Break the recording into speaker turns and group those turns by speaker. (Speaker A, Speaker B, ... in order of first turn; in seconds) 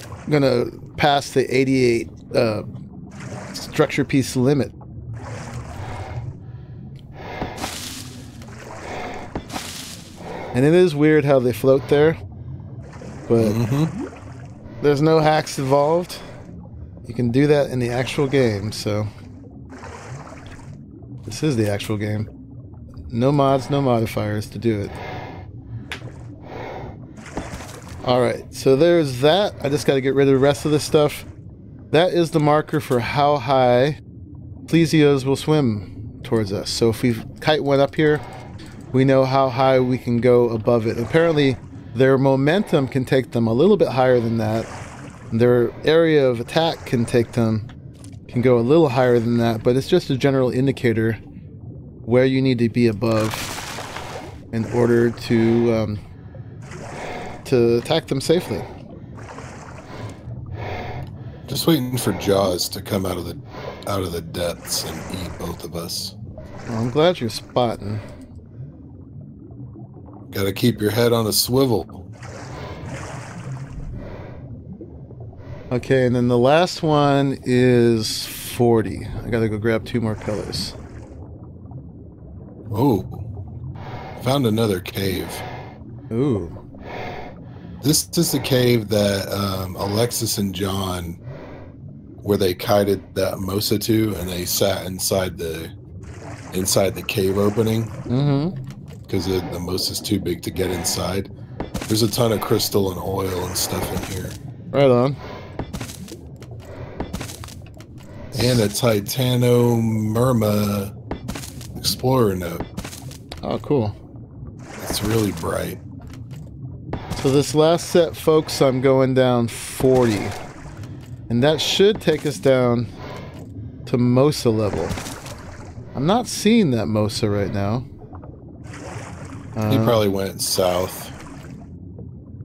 Speaker A: 0.3-2.6, 3.5-4.7, 10.5-12.2, 13.3-13.6, 14.8-16.2, 17.0-19.1, 21.2-22.3, 23.1-24.9, 28.0-31.3, 31.9-34.0, 34.7-38.2, 38.9-44.7, 45.3-47.7, 48.3-51.2, 52.0-53.5, 54.5-56.0, 57.4-58.7, 66.7-68.0, 75.7-80.8, 86.1-86.5, 98.1-98.5, 104.7-105.2, 108.3-108.6, 113.4-114.0, 117.2-120.3, 121.3-122.9, 123.8-125.0, 125.9-127.8, 129.5-130.0
Speaker B: 13.4-13.9, 61.5-66.2, 70.3-72.1, 82.7-83.3, 84.2-85.4, 87.8-91.2, 92.2-95.7, 96.5-97.9, 99.1-101.3, 101.9-104.4, 108.3-110.9, 111.8-112.7, 114.8-115.8, 129.7-131.1